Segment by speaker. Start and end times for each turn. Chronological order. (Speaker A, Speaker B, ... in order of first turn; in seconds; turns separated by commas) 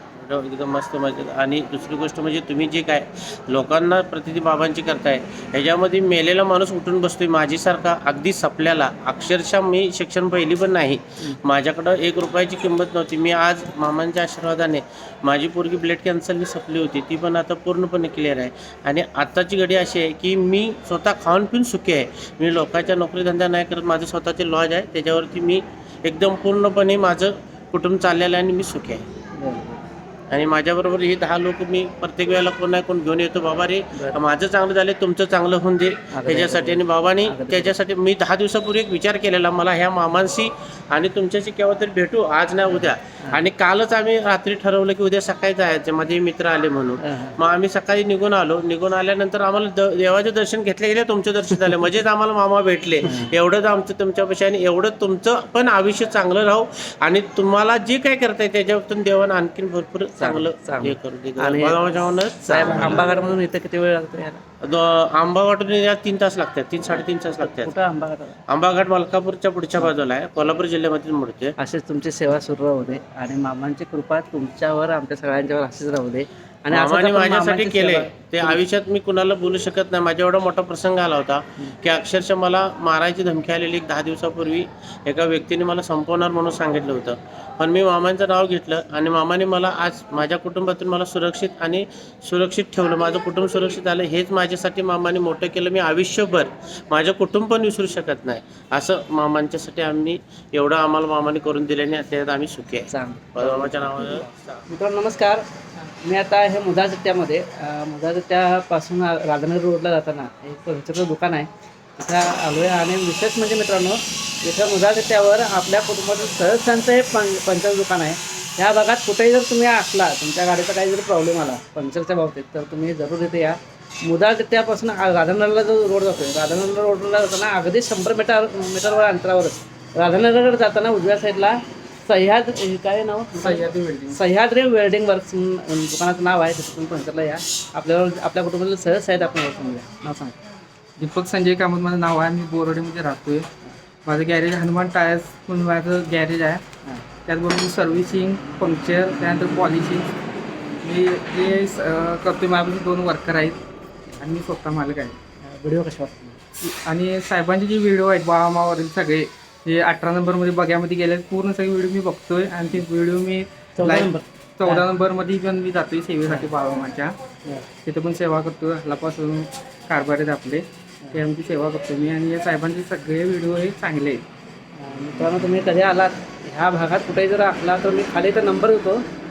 Speaker A: 0.1-29.0, Speaker B: 29.4-29.9, Speaker A: 30.3-63.0, Speaker B: 36.1-37.8, Speaker B: 42.7-43.5, Speaker B: 47.0-47.4, Speaker B: 53.0-53.3, Speaker B: 60.2-64.4, Speaker A: 64.7-67.7, Speaker B: 67.4-68.4, Speaker A: 68.5-71.5, Speaker B: 71.6-78.6, Speaker A: 76.7-104.6, Speaker B: 102.9-105.5, Speaker B: 106.0-140.4, Speaker C: 133.4-134.2, Speaker C: 141.0-143.5, Speaker C: 144.1-146.6, Speaker C: 147.3-150.1, Speaker C: 150.8-153.6, Speaker C: 154.2-155.2, Speaker B: 155.4-156.4, Speaker C: 156.6-167.2, Speaker B: 163.8-164.9, Speaker B: 166.2-166.6, Speaker C: 167.8-174.2, Speaker B: 174.8-179.0